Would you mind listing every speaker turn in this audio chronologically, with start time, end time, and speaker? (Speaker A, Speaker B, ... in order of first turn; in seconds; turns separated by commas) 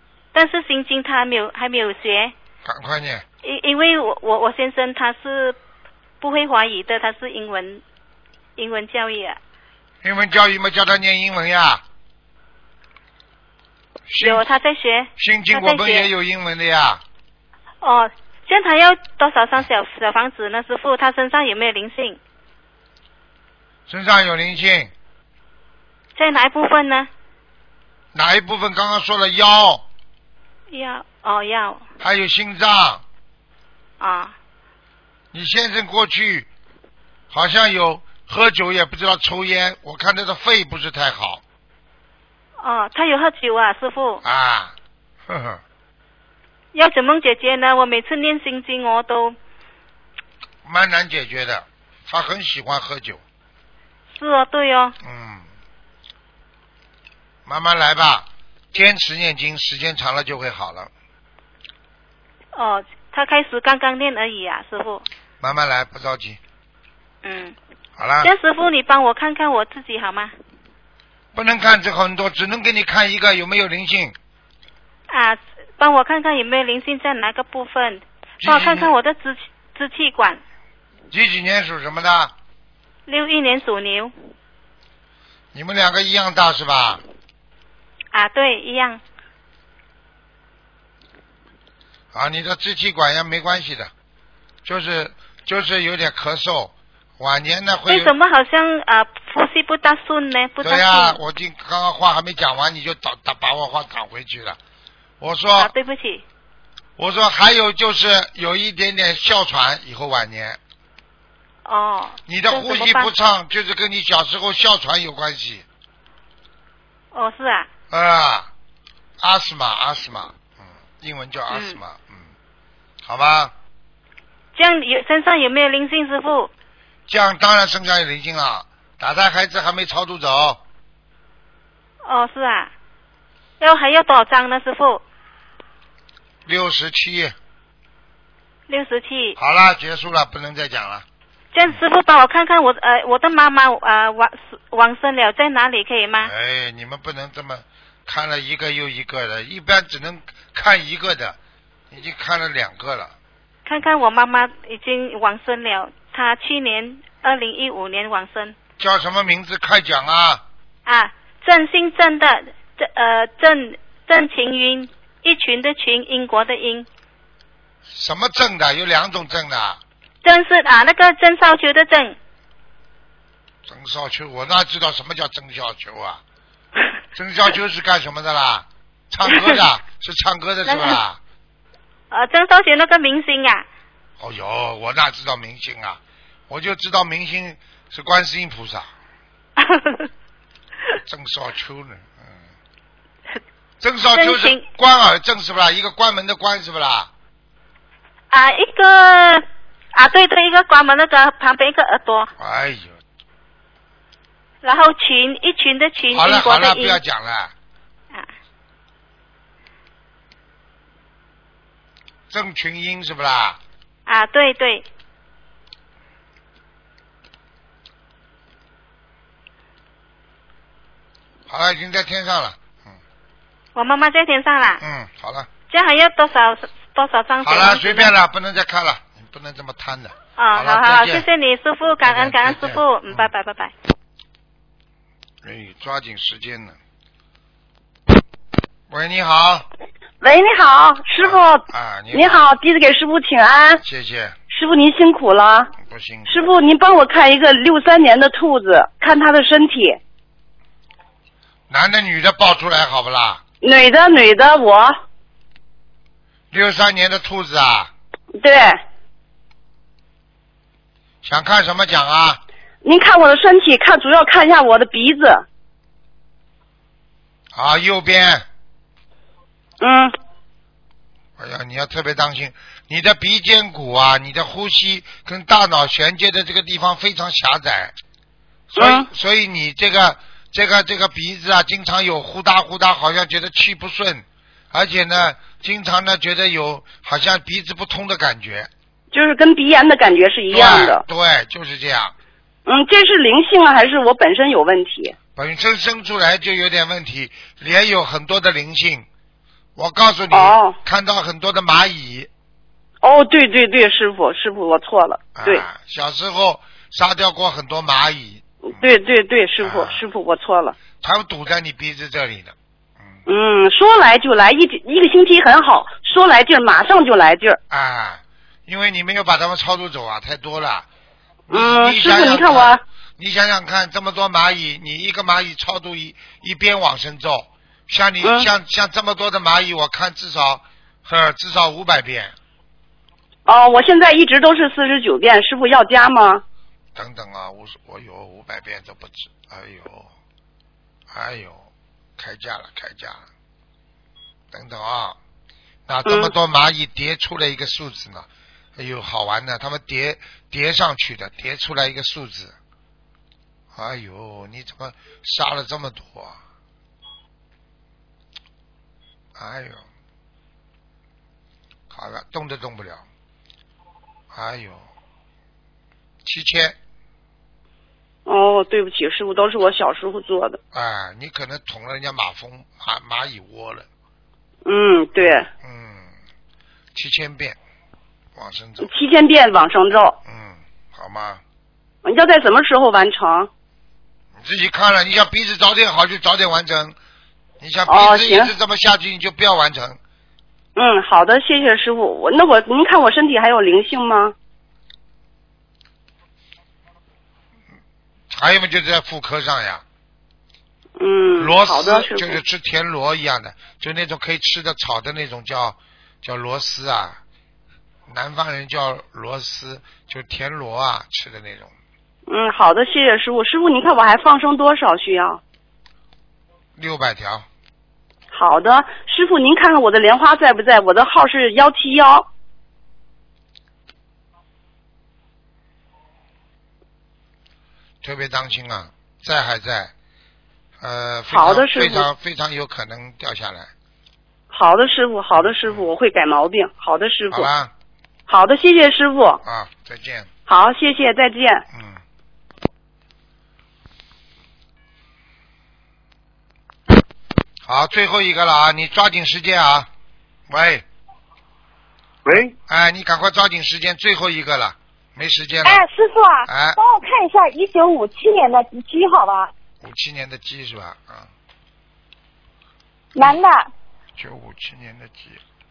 Speaker A: 0.3-2.3, Speaker B: 2.6-3.2, Speaker A: 3.4-5.6, Speaker A: 6.2-7.8, Speaker A: 8.6-9.4, Speaker B: 10.0-11.8, Speaker B: 14.1-14.5, Speaker A: 14.2-16.1, Speaker B: 15.2-17.0, Speaker A: 17.8-22.2, Speaker B: 23.9-24.9, Speaker A: 26.1-27.1, Speaker B: 28.1-29.9, Speaker A: 30.7-31.8, Speaker B: 32.0-33.0, Speaker A: 34.0-34.3, Speaker B: 35.3-36.5, Speaker B: 37.3-41.4, Speaker A: 42.6-44.2, Speaker B: 44.2-44.7, Speaker B: 45.3-45.6, Speaker A: 46.7-49.4, Speaker B: 50.6-53.2, Speaker A: 54.1-55.0, Speaker B: 55.0-55.5, Speaker B: 57.5-60.9, Speaker A: 62.5-65.0, Speaker B: 65.4-66.4, Speaker A: 67.2-67.6, Speaker B: 68.0-68.3, Speaker A: 68.2-70.3, Speaker B: 71.3-74.2, Speaker A: 75.1-80.4, Speaker B: 78.4-78.9, Speaker B: 81.1-82.3, Speaker A: 83.1-84.1, Speaker B: 85.5-87.0, Speaker A: 88.1-89.0, Speaker B: 92.1-93.9, Speaker B: 94.6-98.1, Speaker A: 97.9-101.2, Speaker B: 100.6-104.6, Speaker B: 105.2-105.7, Speaker A: 105.6-106.2, Speaker B: 107.0-110.6, Speaker A: 111.6-113.1, Speaker B: 112.3-115.6, Speaker A: 117.1-117.7, Speaker B: 117.9-118.5, Speaker B: 119.2-122.3, Speaker A: 121.5-121.8, Speaker B: 123.0-123.5, Speaker A: 124.5-126.5, Speaker B: 127.1-130.6, Speaker A: 132.1-132.7, Speaker A: 133.6-135.0, Speaker B: 136.4-137.3, Speaker A: 138.7-139.4, Speaker B: 139.4-141.1, Speaker A: 141.5-146.3, Speaker B: 146.2-151.4, Speaker B: 151.9-153.2, Speaker A: 153.7-158.6, Speaker B: 158.8-160.4, Speaker A: 160.8-166.9, Speaker B: 167.9-169.8, Speaker A: 170.2-172.2, Speaker B: 173.7-176.2, Speaker B: 177.1-181.2, Speaker A: 180.7-181.0, Speaker A: 182.1-183.7, Speaker B: 184.2-188.9, Speaker A: 189.6-190.1, Speaker B: 190.9-192.4, Speaker B: 193.8-197.1, Speaker A: 194.1-194.7, Speaker A: 198.3-202.3, Speaker B: 202.4-203.0, Speaker A: 204.6-207.0, Speaker B: 206.1-207.5, Speaker B: 212.3-213.6, Speaker A: 214.1-214.9, Speaker B: 221.5-223.0, Speaker A: 223.8-224.8, Speaker B: 224.8-225.5, Speaker A: 225.7-228.1, Speaker B: 227.4-231.2, Speaker A: 230.4-233.7, Speaker B: 232.0-233.3, Speaker B: 235.4-236.8, Speaker B: 238.9-239.7, Speaker C: 240.2-243.8, Speaker B: 241.2-242.5, Speaker B: 243.8-244.3, Speaker C: 244.5-245.7, Speaker B: 245.8-246.5, Speaker C: 246.3-250.0, Speaker B: 251.7-253.4, Speaker C: 253.6-255.0, Speaker B: 256.5-257.9, Speaker C: 258.4-258.8, Speaker B: 261.2-262.4, Speaker C: 262.8-265.5, Speaker B: 267.5-268.4, Speaker C: 269.8-270.1, Speaker B: 271.4-277.9, Speaker B: 278.7-288.7, Speaker C: 278.8-279.1, Speaker C: 289.1-291.0, Speaker B: 290.5-292.1, Speaker C: 292.6-295.1, Speaker B: 295.4-299.1, Speaker B: 299.8-302.3, Speaker C: 300.3-300.8, Speaker C: 303.0-305.6, Speaker B: 305.4-308.9, Speaker C: 308.6-310.8, Speaker B: 309.6-310.0, Speaker B: 311.0-313.2, Speaker C: 313.2-317.6, Speaker B: 317.7-320.9, Speaker B: 321.5-332.3, Speaker C: 321.5-322.8, Speaker C: 328.2-328.5, Speaker C: 333.5-336.4, Speaker B: 336.9-340.1, Speaker B: 341.1-343.2, Speaker B: 344.5-345.2, Speaker B: 345.9-352.6, Speaker C: 346.1-346.3, Speaker B: 353.7-356.4, Speaker B: 359.4-359.8, Speaker B: 361.9-363.0, Speaker B: 364.3-364.9, Speaker B: 366.2-366.8, Speaker C: 368.2-370.6, Speaker B: 370.7-373.9, Speaker C: 374.6-375.5, Speaker B: 375.2-376.1, Speaker B: 376.9-377.6, Speaker B: 378.4-378.9, Speaker C: 378.8-380.2, Speaker B: 380.2-381.4, Speaker C: 382.0-383.5, Speaker B: 384.4-387.0, Speaker B: 387.6-390.0, Speaker C: 387.9-388.5, Speaker C: 390.8-394.4, Speaker B: 398.3-399.8, Speaker C: 401.0-402.4, Speaker B: 401.4-407.2, Speaker B: 408.1-411.7, Speaker C: 412.3-415.4, Speaker B: 416.8-417.5, Speaker C: 418.3-422.3, Speaker B: 428.0-429.9, Speaker B: 430.8-433.7, Speaker C: 431.3-432.1, Speaker C: 434.5-437.5, Speaker B: 435.4-435.9, Speaker B: 437.3-437.7, Speaker C: 438.3-439.4, Speaker B: 439.4-440.3, Speaker C: 440.5-441.6, Speaker B: 441.7-442.0, Speaker B: 447.6-449.9, Speaker B: 450.5-450.9, Speaker B: 452.3-455.8, Speaker D: 455.6-459.5, Speaker B: 456.5-456.8, Speaker B: 459.8-461.3, Speaker D: 463.1-463.7, Speaker B: 464.2-465.4